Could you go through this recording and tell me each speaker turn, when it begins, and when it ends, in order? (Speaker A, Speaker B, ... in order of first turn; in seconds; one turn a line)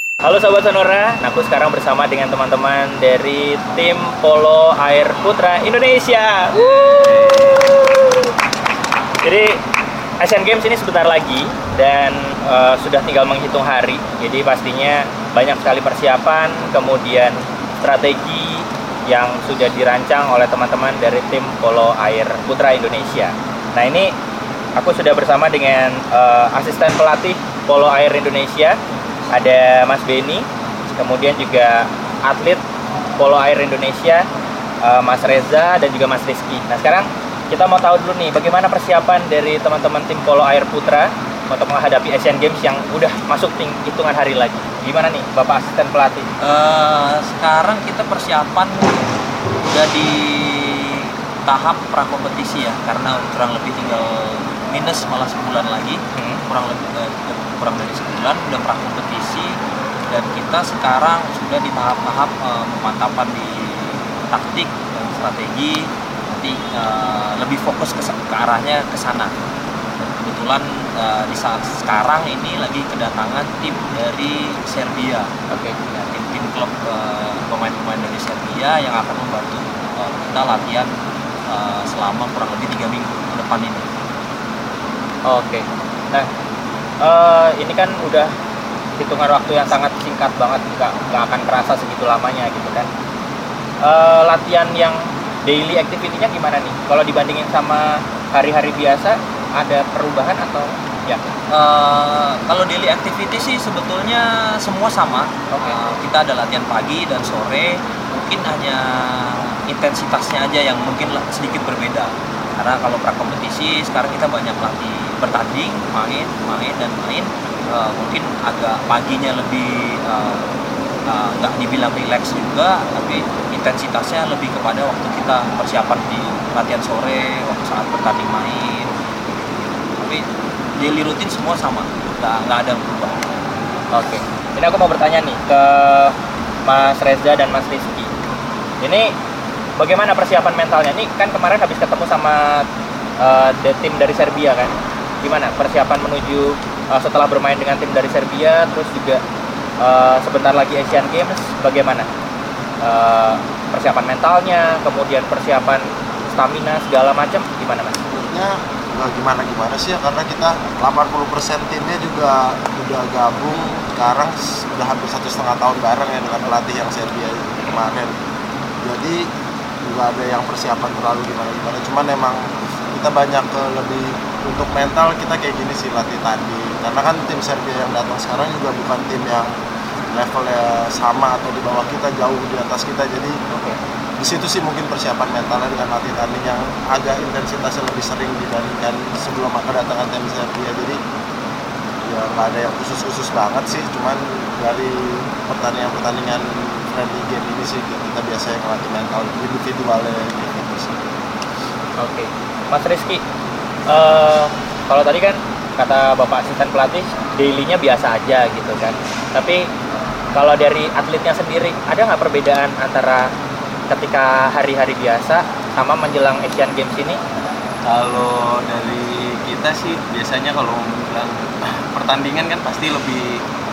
Speaker A: 0.2-8.3
Speaker B: 6.5-7.7
Speaker A: 9.2-9.6
Speaker A: 10.2-24.1
Speaker A: 24.8-28.8
Speaker A: 29.3-32.6
Speaker A: 33.2-34.2
Speaker A: 34.8-46.3
Speaker C: 46.4-49.1
Speaker C: 49.7-59.5
Speaker A: 56.1-56.4
Speaker C: 60.1-69.3
Speaker C: 70.0-75.3
Speaker A: 75.5-76.0
Speaker C: 76.1-80.9
Speaker C: 81.5-83.9
Speaker A: 85.3-86.3
Speaker A: 87.0-88.3
Speaker A: 89.0-92.9
Speaker A: 93.8-101.2
Speaker C: 101.5-120.5
Speaker A: 105.5-105.8
Speaker C: 121.1-128.9
Speaker C: 129.9-130.2
Speaker C: 130.8-133.3
Speaker A: 133.9-138.1
Speaker A: 138.8-139.1
Speaker A: 139.8-142.7
Speaker A: 143.2-149.2
Speaker A: 149.8-152.1
Speaker A: 152.8-158.0
Speaker D: 158.1-168.2
Speaker D: 168.8-169.2
Speaker D: 169.9-179.5
Speaker D: 180.1-183.3
Speaker A: 183.5-183.8
Speaker D: 184.2-191.0
Speaker D: 192.0-201.1
Speaker A: 202.0-203.2
Speaker A: 203.9-209.7
Speaker A: 210.3-213.3
Speaker A: 213.9-217.2
Speaker B: 217.9-223.4